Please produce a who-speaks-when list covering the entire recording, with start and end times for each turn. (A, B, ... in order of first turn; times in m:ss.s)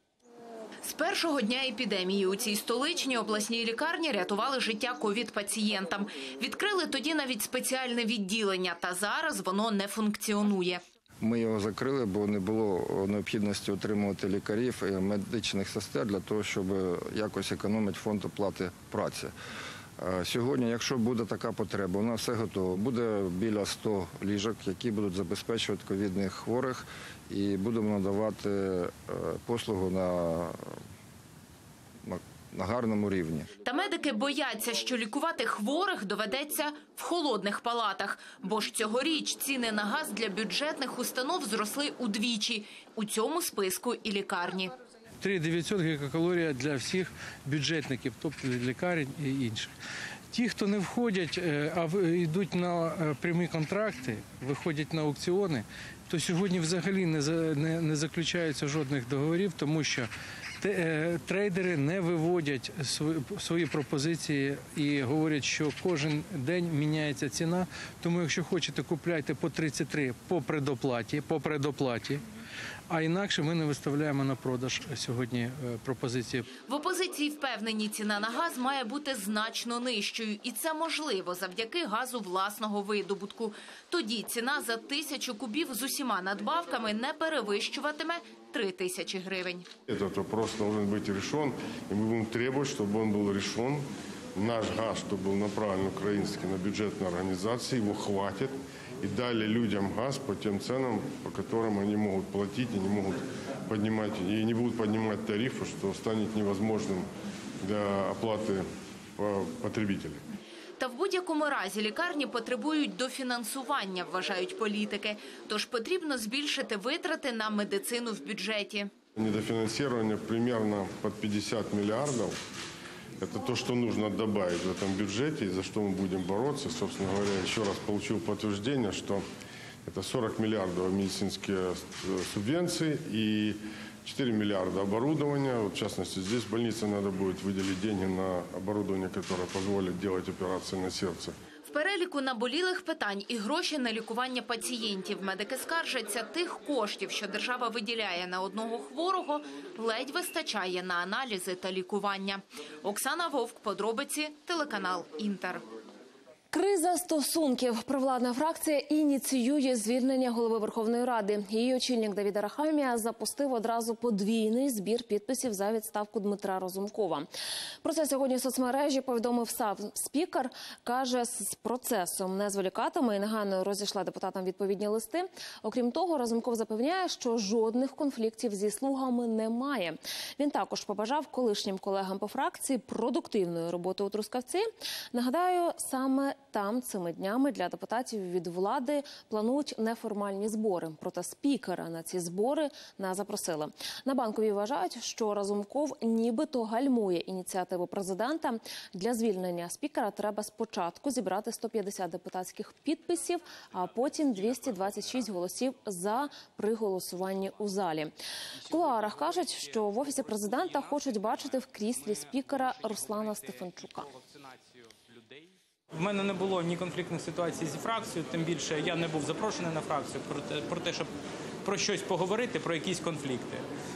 0:00.8-0:10.8 A
0:11.2-0:19.3 B
0:20.0-0:30.7 B
0:32.0-0:33.5 B
0:33.6-0:44.7 A
0:45.2-0:49.7 C
0:50.3-1:00.1 C
1:00.6-1:12.2 C
1:12.9-1:16.4 C
1:16.6-1:29.7 A
1:29.9-1:47.1 D
1:47.6-1:48.7 D
1:49.2-1:50.2 D
1:50.8-1:58.9 A
1:59.2-2:02.4 D
2:03.2-2:09.2 D
2:09.8-2:21.4 D
2:21.6-2:35.6 A
2:36.5-2:47.3 E
2:47.8-3:28.1 E
3:28.7-3:34.1 E
3:35.9-3:41.1 F
3:41.6-3:43.7 F